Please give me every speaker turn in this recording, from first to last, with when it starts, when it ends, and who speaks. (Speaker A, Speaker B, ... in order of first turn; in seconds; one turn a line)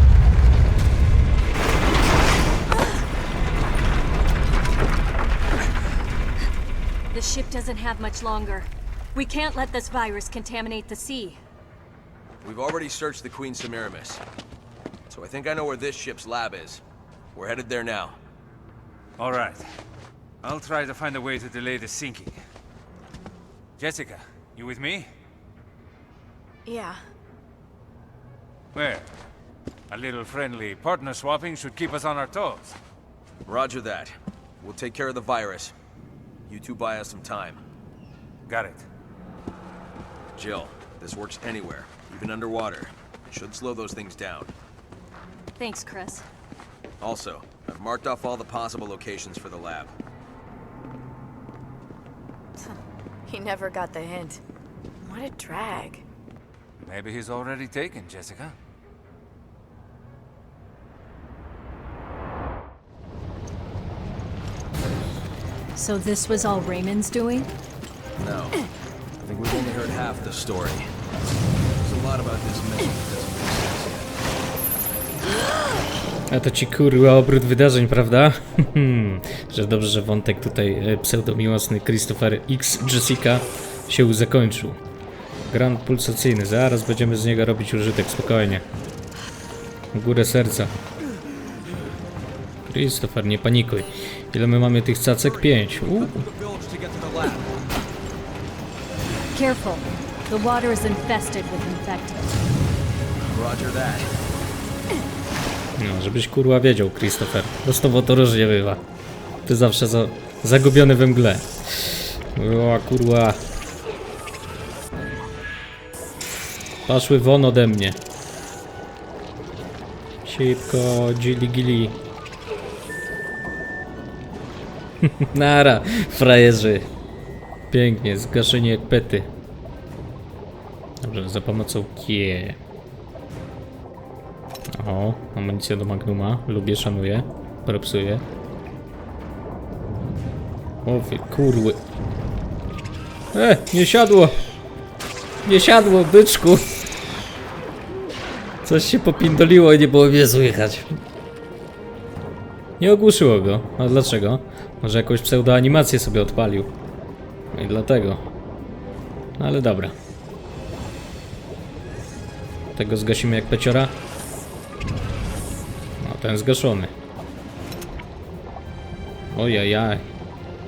Speaker A: 7.1-11.4
Speaker B: 12.4-14.2
Speaker B: 15.1-16.8
Speaker B: 17.4-18.2
Speaker C: 19.2-19.6
Speaker C: 20.4-22.4
Speaker C: 23.8-25.1
Speaker D: 26.7-27.0
Speaker C: 28.7-29.1
Speaker C: 29.9-32.8
Speaker B: 33.5-35.7
Speaker B: 36.5-37.6
Speaker C: 38.5-38.9
Speaker B: 40.4-44.5
Speaker A: 45.6-46.2
Speaker B: 47.0-49.9
Speaker D: 52.6-54.4
Speaker D: 55.0-56.0
Speaker C: 56.8-58.5
Speaker A: 65.8-67.5
Speaker B: 68.2-68.6
Speaker B: 69.2-70.9
Speaker B: 71.8-74.1
Speaker E: 76.3-84.8
Speaker E: 85.5-88.7
Speaker E: 89.9-90.8
Speaker E: 92.7-96.3
Speaker B: 95.2-97.5
Speaker A: 99.3-102.2
Speaker B: 103.3-104.1
Speaker E: 105.8-108.8
Speaker E: 109.5-113.4
Speaker E: 116.9-118.0
Speaker E: 120.2-122.0
Speaker E: 125.0-126.9
Speaker E: 127.7-129.3
Speaker E: 131.0-132.6
Speaker E: 134.7-138.3
Speaker E: 140.8-141.8
Speaker E: 143.3-144.4
Speaker E: 145.4-146.9
Speaker E: 148.7-151.0
Speaker E: 152.8-156.7
Speaker E: 157.5-158.2
Speaker E: 159.4-159.9
Speaker E: 162.8-164.0
Speaker E: 166.0-166.9
Speaker E: 169.3-170.1